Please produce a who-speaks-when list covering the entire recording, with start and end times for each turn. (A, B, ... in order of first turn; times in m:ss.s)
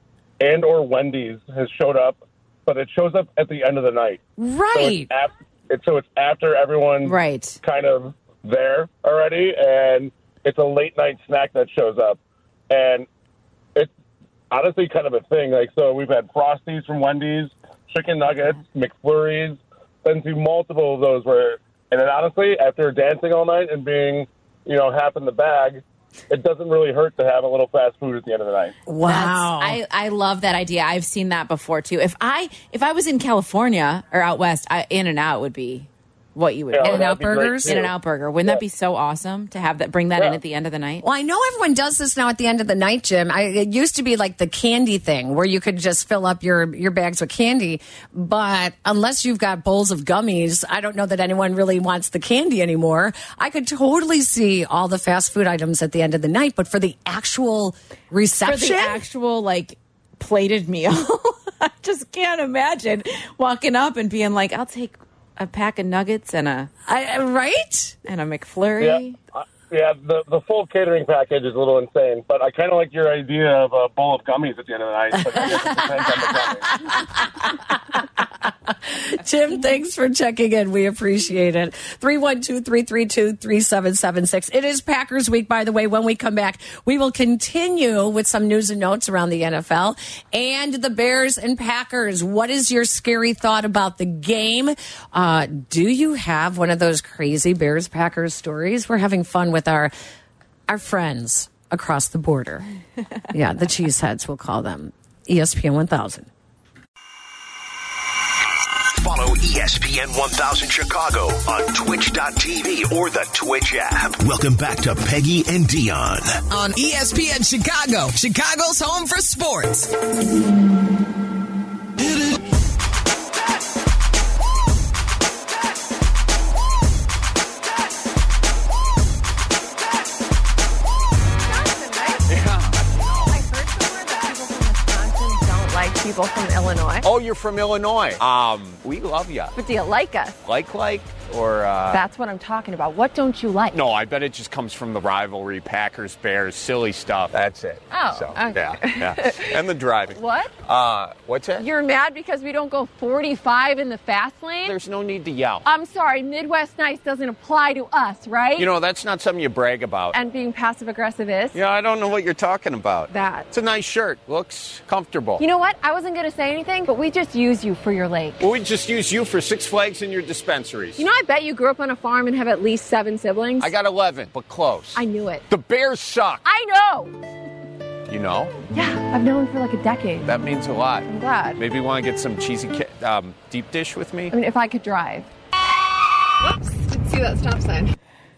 0:00.4-0:04.2 A
0:04.4-0:05.1 B
0:04.7-0:12.2 A
0:07.0-0:07.6 C
0:12.7-0:13.1 A
0:14.5-0:28.7 A
0:28.9-0:29.8 B
0:29.1-0:37.1 C
0:36.7-0:37.9 A
0:36.8-0:37.8 B
0:37.6-0:41.0 C
0:41.0-0:59.0 B
0:58.4-1:06.7 C
1:06.9-1:08.0 B
1:08.1-1:09.2 C
1:08.8-1:16.9 A
1:15.4-1:16.9 B
1:17.5-1:18.0 B
1:18.9-1:39.9 B
1:40.7-1:42.7 B
1:43.3-1:46.3 B
1:48.9-1:56.4 D
1:56.5-1:59.9 E
2:11.4-2:12.3 F
2:12.3-2:13.4 G
2:13.2-2:17.1 F
2:17.0-2:19.5 G
2:19.5-2:20.4 F
2:20.4-2:22.0 G
2:21.9-2:23.8 F
2:23.7-2:31.6 G
2:27.9-2:30.5 F
2:31.6-2:34.8 F
2:34.6-2:35.6 G
2:35.6-2:38.7 F
2:38.6-2:40.2 G
2:40.1-2:41.6 F
2:41.5-2:45.4 G
2:43.1-2:43.5 F
2:45.4-2:48.4 F
2:48.4-2:51.0 G
2:51.0-2:53.7 F
2:53.6-2:56.4 G
2:54.9-2:55.4 F
2:56.4-2:57.1 F
2:58.1-2:58.5 G
2:58.7-3:00.3 F
3:00.2-3:04.3 G
3:01.1-3:01.6 F
3:04.3-3:05.3 F
3:06.4-3:07.9 F